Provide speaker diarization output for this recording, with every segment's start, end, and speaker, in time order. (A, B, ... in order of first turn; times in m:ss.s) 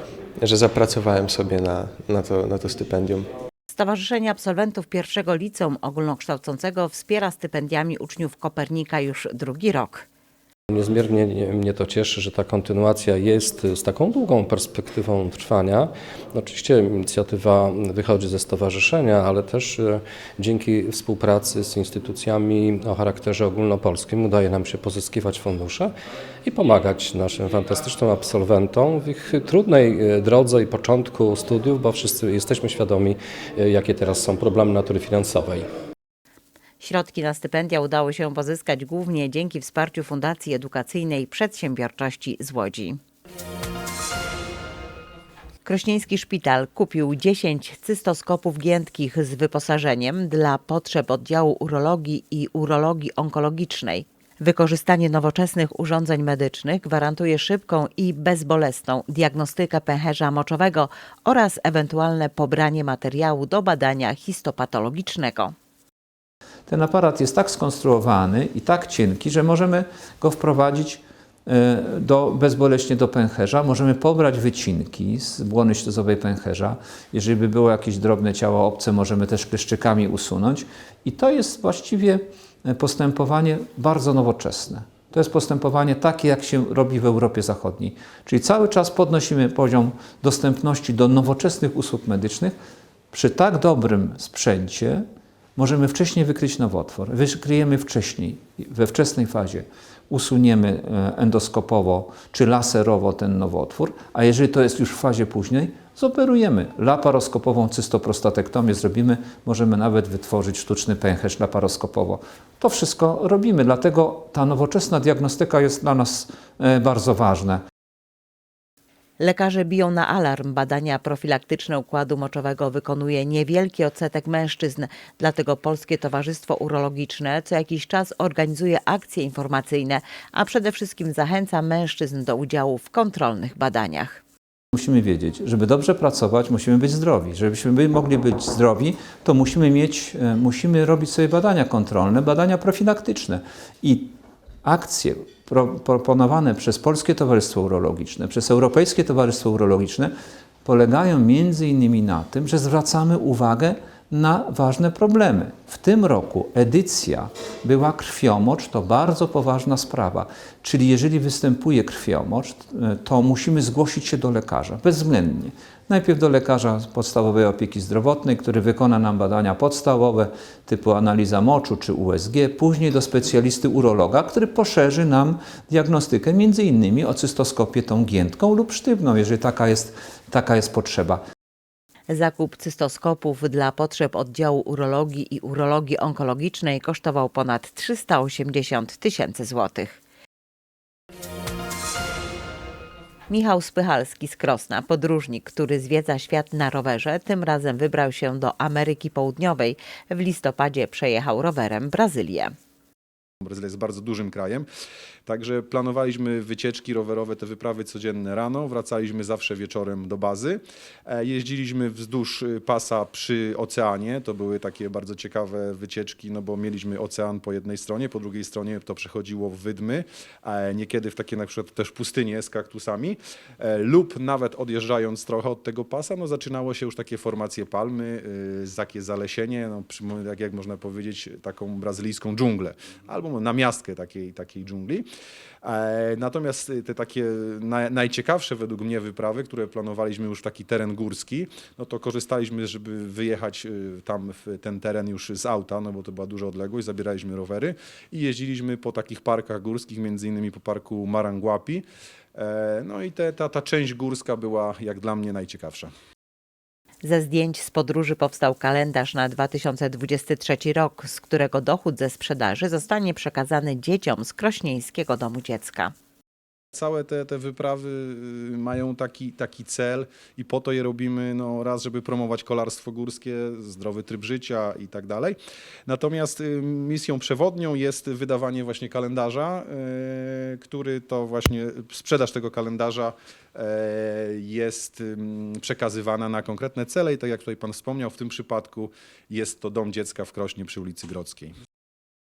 0:00.4-0:03.3 A
0:03.7-0:10.0 B
0:10.7-0:25.9 C
0:26.4-0:35.6 C
0:36.8-0:43.0 B
0:45.6-1:05.5 B
1:06.7-1:32.6 D
1:33.1-1:35.0 D
1:35.6-1:57.6 D
1:59.2-2:14.2 B
2:14.7-2:24.1 D
2:24.6-2:30.1 D
2:30.6-3:01.2 D
3:02.1-3:10.0 B
3:13.3-3:22.5 B
3:23.4-3:24.6 E
3:25.2-3:55.1 E
3:55.6-4:15.9 E
4:17.0-4:25.9 B
4:26.7-4:51.5 E